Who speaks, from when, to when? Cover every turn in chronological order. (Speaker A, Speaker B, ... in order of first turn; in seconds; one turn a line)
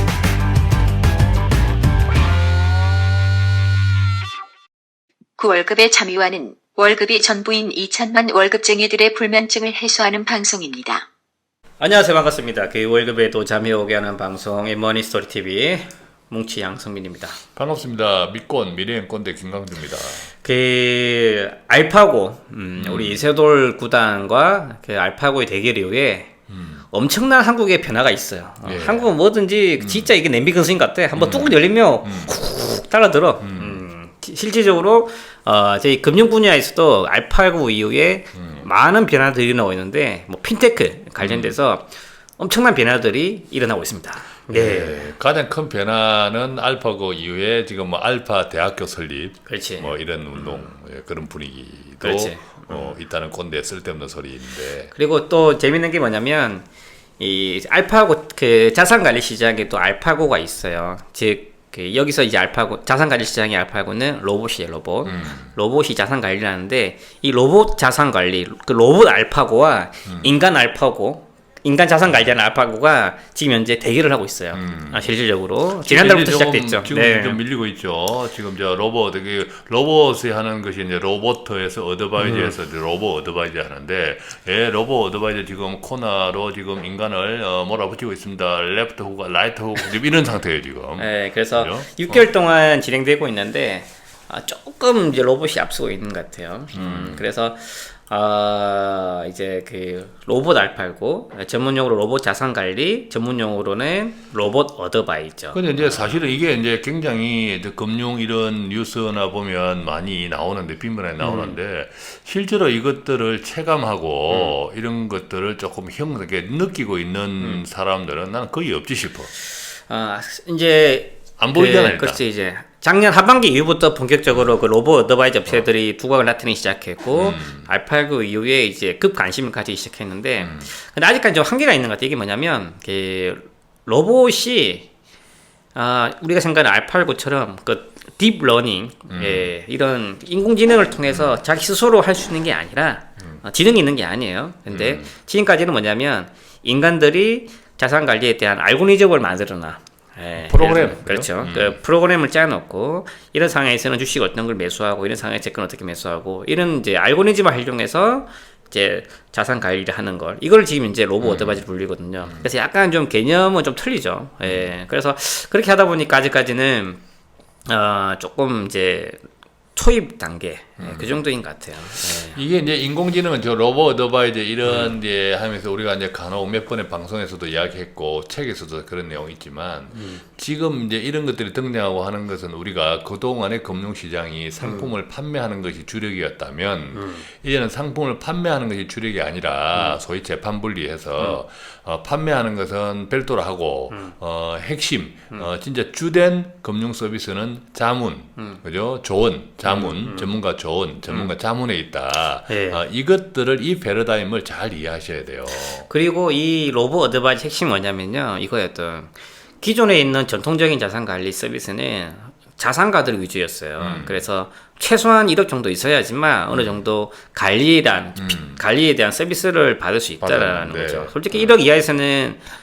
Speaker A: 5.4-11.0
Speaker B: 11.8-17.4
Speaker C: 17.6-20.3
Speaker B: 20.4-26.3
Speaker C: 22.8-23.2
Speaker C: 26.5-26.8
Speaker B: 26.9-45.1
Speaker C: 28.6-29.1
Speaker C: 29.8-30.1
Speaker C: 31.1-32.4
Speaker C: 33.4-33.8
Speaker C: 38.3-38.7
Speaker C: 41.2-41.6
Speaker C: 44.5-54.9
Speaker B: 49.5-50.7
Speaker B: 52.0-53.0
Speaker B: 54.9-56.6
Speaker B: 57.2-77.4
Speaker C: 65.0-65.5
Speaker C: 74.5-75.0
Speaker C: 75.8-92.2
Speaker B: 82.2-82.5
Speaker B: 91.0-106.1
Speaker C: 96.7-97.2
Speaker C: 105.5-119.3
Speaker B: 111.2-111.6
Speaker B: 114.3-114.6
Speaker B: 119.9-134.9
Speaker C: 121.4-122.2
Speaker C: 127.1-127.7
Speaker C: 130.4-130.7
Speaker B: 135.7-167.0
Speaker C: 139.1-139.5
Speaker C: 144.7-145.1
Speaker C: 150.4-151.8
Speaker C: 161.2-161.6
Speaker C: 162.2-162.5
Speaker C: 164.4-164.7
Speaker B: 167.7-169.2
Speaker B: 169.7-172.4
Speaker C: 170.8-171.2
Speaker C: 172.1-205.9
Speaker B: 174.7-174.9
Speaker B: 179.9-180.2
Speaker B: 184.6-184.9
Speaker B: 186.9-187.2
Speaker B: 189.7-190.0
Speaker B: 199.6-200.3
Speaker B: 202.5-202.8
Speaker B: 205.6-222.4
Speaker C: 213.8-214.2
Speaker C: 216.5-216.8
Speaker C: 218.2-218.6
Speaker C: 220.2-221.6